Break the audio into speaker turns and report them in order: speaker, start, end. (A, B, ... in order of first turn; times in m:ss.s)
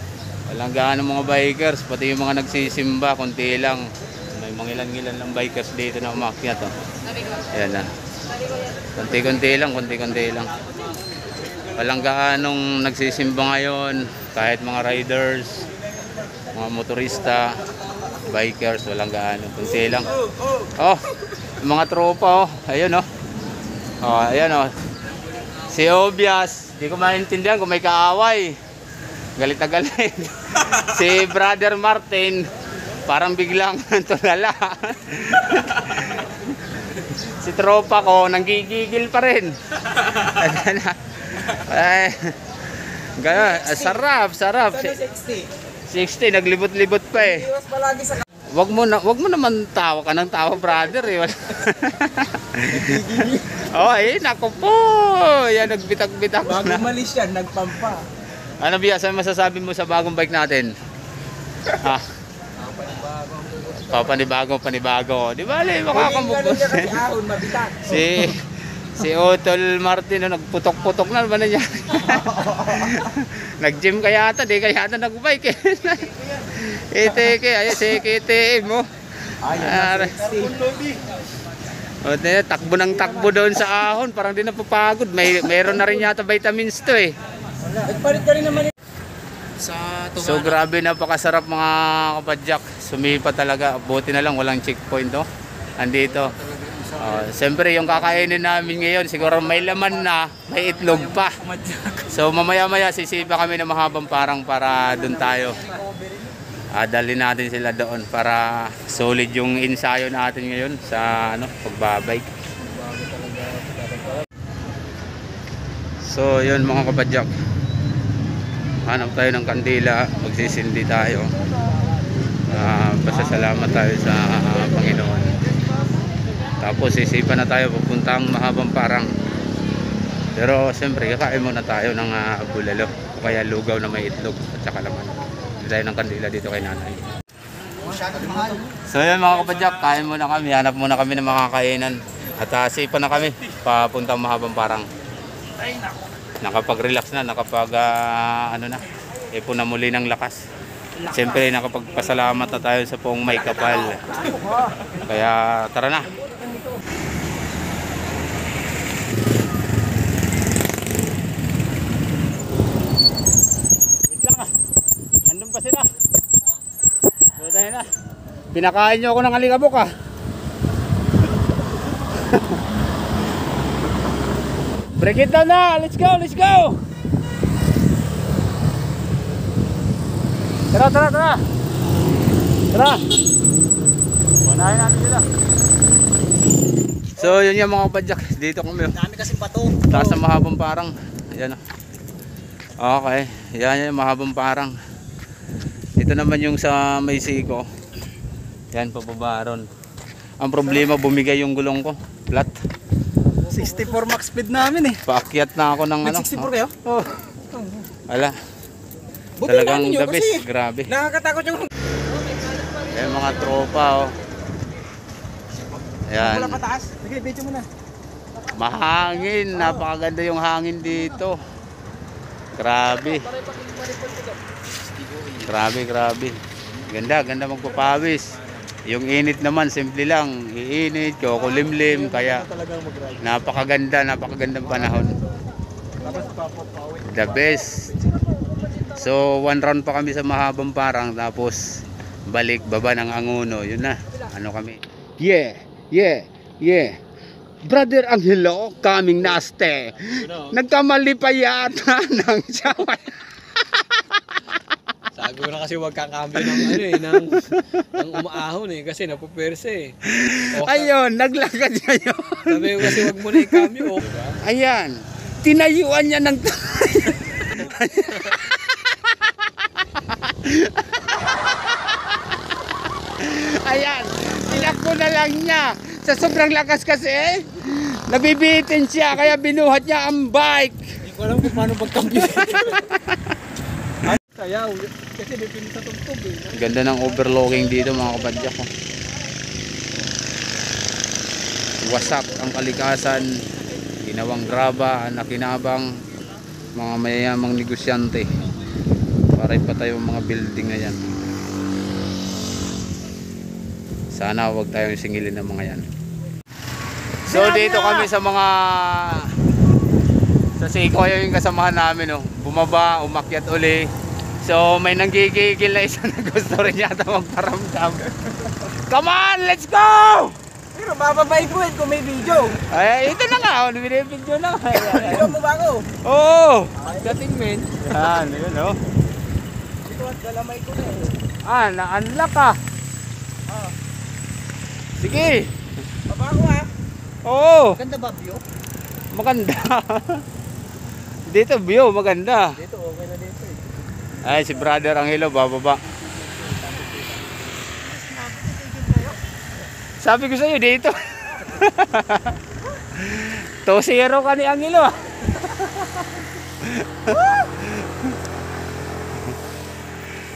0:00.5-0:03.8 A
0:04.4-0:06.7 A
0:07.5-0:07.9 A
0:09.0-0:10.5 A
0:11.8-0:15.7 A
0:16.5-0:17.5 A
0:18.2-0:20.1 A
0:20.6-0:23.0 A
0:24.0-0:24.7 A
0:25.6-0:28.5 A
0:29.4-0:32.4 A
0:33.1-0:36.3 A
0:36.9-0:42.4 A
0:43.2-0:45.0 A
0:43.4-0:44.0 B
0:44.7-0:45.5 B
0:45.9-0:47.5 A
0:47.2-0:48.2 B
0:48.5-0:56.9 A
0:52.7-0:53.7 B
0:56.4-0:58.0 B
0:58.6-1:00.7 A
1:01.7-1:02.0 A
1:02.7-1:03.9 B
1:03.8-1:07.0 A
1:05.9-1:08.1 B
1:07.8-1:18.8 A
1:19.4-1:20.5 A
1:19.4-1:20.6 B
1:22.0-1:27.1 A
1:27.7-1:28.7 B
1:29.7-1:35.2 A
1:35.8-1:45.6 A
1:46.7-1:52.3 A
1:52.8-1:53.6 B
1:56.0-1:57.3 A
1:58.8-2:01.3 A
2:02.5-2:05.3 A
2:06.6-2:09.1 A
2:10.3-2:17.0 A
2:17.9-2:18.6 B
2:18.8-2:24.9 A
2:26.4-2:28.8 A
2:29.3-2:30.4 A
2:31.1-2:34.0 A
2:34.9-2:36.1 A
2:44.1-2:44.5 A
2:45.3-2:45.9 A
2:47.4-2:47.8 A
2:48.5-2:49.9 A
2:52.2-2:52.5 A
2:55.0-2:56.8 A
3:00.7-3:01.4 A
3:02.7-3:03.0 A
3:04.4-3:05.2 A
3:07.2-3:09.1 A
3:09.0-3:10.2 B
3:09.9-3:11.6 A
3:12.8-3:14.7 A
3:16.0-3:17.6 A
3:18.7-3:19.7 A
3:20.4-3:22.6 A
3:23.5-3:25.0 B
3:25.0-3:26.5 A
3:26.0-3:27.8 B
3:28.1-3:28.3 A
3:29.4-3:31.7 B
3:29.4-3:30.9 A
3:32.7-3:34.1 A
3:36.1-3:36.6 A
3:36.2-3:37.7 B
3:38.5-3:41.4 A
3:42.6-3:43.3 A
3:45.3-3:46.3 A
3:46.9-3:52.5 A
3:51.6-3:53.2 B
3:53.2-3:55.2 A
3:56.0-3:57.3 B
3:57.0-3:58.0 A
3:58.9-4:01.6 A
4:02.3-4:06.9 A
4:07.6-4:13.2 A
4:13.7-4:14.4 A
4:15.2-4:17.4 C
4:16.4-4:18.2 A
4:16.4-4:17.0 B
4:18.0-4:19.9 C
4:20.0-4:29.1 A
4:22.4-4:24.0 C
4:23.0-4:24.3 B
4:30.0-4:31.1 A
4:33.0-4:41.0 A
4:41.0-4:42.9 B
4:42.7-4:43.2 A
4:44.0-4:46.6 B
4:46.5-4:48.7 A
4:51.8-4:53.4 A
4:54.0-4:55.9 A
4:56.8-4:58.3 A
4:59.3-5:01.2 A
5:04.1-5:05.9 A
5:07.3-5:09.3 A
5:07.3-5:08.0 B
5:10.6-5:13.9 A
5:14.4-5:20.4 A
5:20.7-5:22.6 B
5:22.6-5:25.3 A
5:24.7-5:25.9 B
5:26.0-5:26.7 A
5:26.8-5:27.2 B
5:26.8-5:27.7 C
5:27.8-5:28.8 A
5:29.8-5:31.2 B
5:31.4-5:32.6 A
5:35.0-5:35.5 A
5:36.1-5:36.7 B
5:37.3-5:37.8 A
5:37.8-5:38.4 B
5:39.1-5:40.2 A
5:41.3-5:42.6 A
5:42.6-5:43.6 B
5:44.2-5:45.8 A
5:46.4-5:47.0 B
5:48.0-5:49.2 B
5:50.0-5:52.4 A
5:52.9-5:58.1 A